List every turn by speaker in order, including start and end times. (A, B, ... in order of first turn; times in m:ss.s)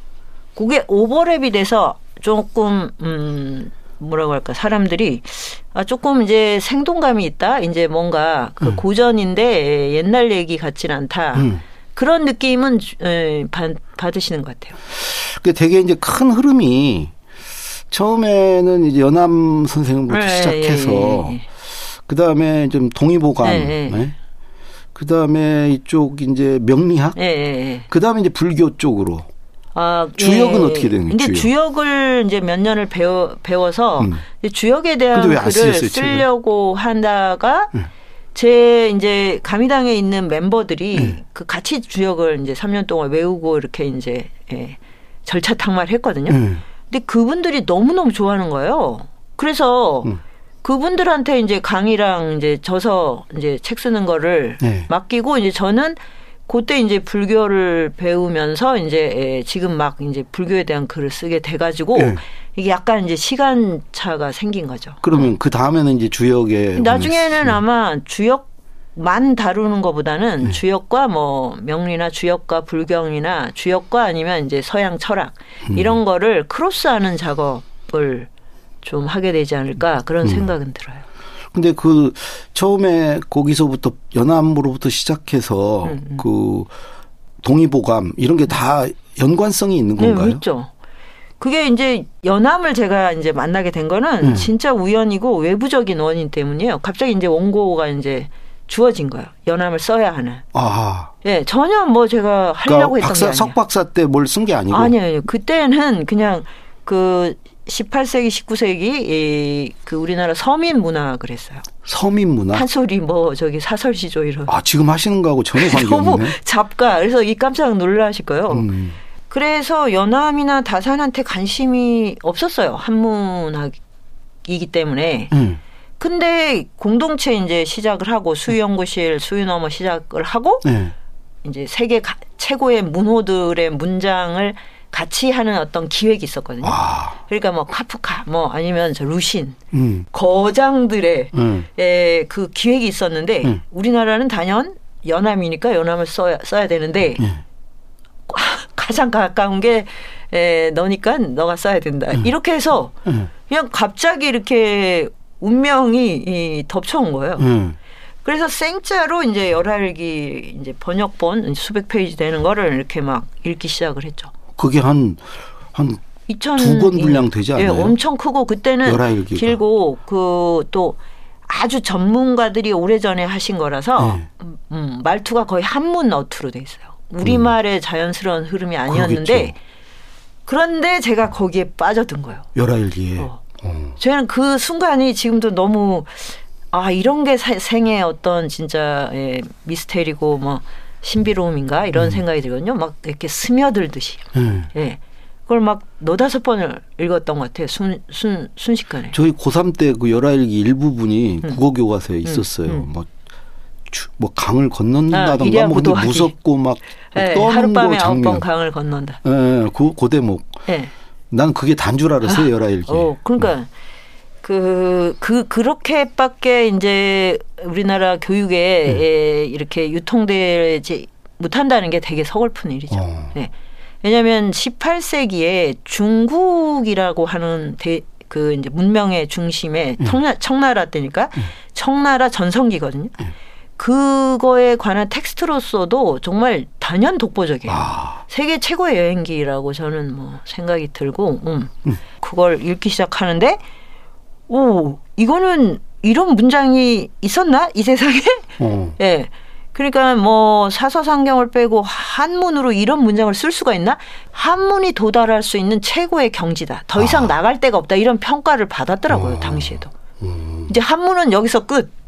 0:00.6-0:14.8 A
0:11.4-0:11.6 B
0:14.9-0:17.1 B
0:17.9-0:21.4 B
0:20.1-0:21.4 A
0:22.1-0:24.2 B
0:23.4-0:24.1 A
0:25.0-0:27.2 B
0:27.2-0:27.9 A
0:27.9-0:29.3 B
0:29.8-0:37.7 A
0:30.2-0:31.5 B
0:35.1-0:36.3 B
0:38.4-0:50.1 A
0:46.3-0:46.6 B
0:50.6-1:05.3 A
0:54.6-0:54.9 B
1:02.0-1:02.2 B
1:05.0-1:07.6 B
1:06.8-1:18.3 A
1:15.7-1:16.0 B
1:18.8-1:21.0 A
1:20.2-1:20.5 B
1:21.5-1:26.7 B
1:25.8-1:26.2 A
1:27.4-1:30.4 B
1:30.0-1:30.7 A
1:31.4-1:40.4 A
1:34.2-1:34.5 B
1:40.5-1:41.1 B
1:41.2-1:43.6 A
1:42.6-1:45.0 B
1:44.7-1:51.7 A
1:51.8-1:52.7 B
1:52.5-1:54.5 A
1:54.5-1:56.4 B
1:55.6-1:58.7 A
1:58.5-1:59.0 B
1:59.3-2:03.8 A
2:04.5-2:05.3 A
2:05.3-2:05.6 B
2:06.0-2:10.7 A
2:10.6-2:10.9 B
2:11.4-2:19.6 A
2:16.6-2:17.2 B
2:19.7-2:20.1 B
2:20.1-2:27.2 A
2:21.3-2:21.7 B
2:28.3-2:37.5 A
2:37.4-2:37.8 B
2:38.2-2:44.3 A
2:44.6-2:46.0 B
2:46.3-2:59.6 A
2:46.6-2:48.0 B
2:48.8-2:49.6 B
2:54.0-2:54.2 B
2:57.2-2:57.5 B
2:58.9-2:59.6 B
3:00.5-3:02.5 A
3:02.6-3:04.0 B
3:04.0-3:19.2 A
3:12.0-3:12.2 B
3:14.4-3:14.7 B
3:19.1-3:23.1 B
3:22.2-3:22.9 A
3:23.9-3:28.4 B
3:25.1-3:26.3 A
3:27.1-3:29.2 A
3:29.2-3:30.7 B
3:30.7-3:30.9 A
3:31.3-3:33.5 B
3:32.3-3:33.7 A
3:34.4-3:43.5 A
3:42.9-3:43.3 B
3:44.0-3:53.2 A
3:53.8-4:03.6 A
3:57.7-3:58.2 B
4:04.5-4:19.9 A
4:08.6-4:09.0 B
4:17.0-4:17.3 B
4:19.1-4:20.7 B
4:20.7-4:21.9 A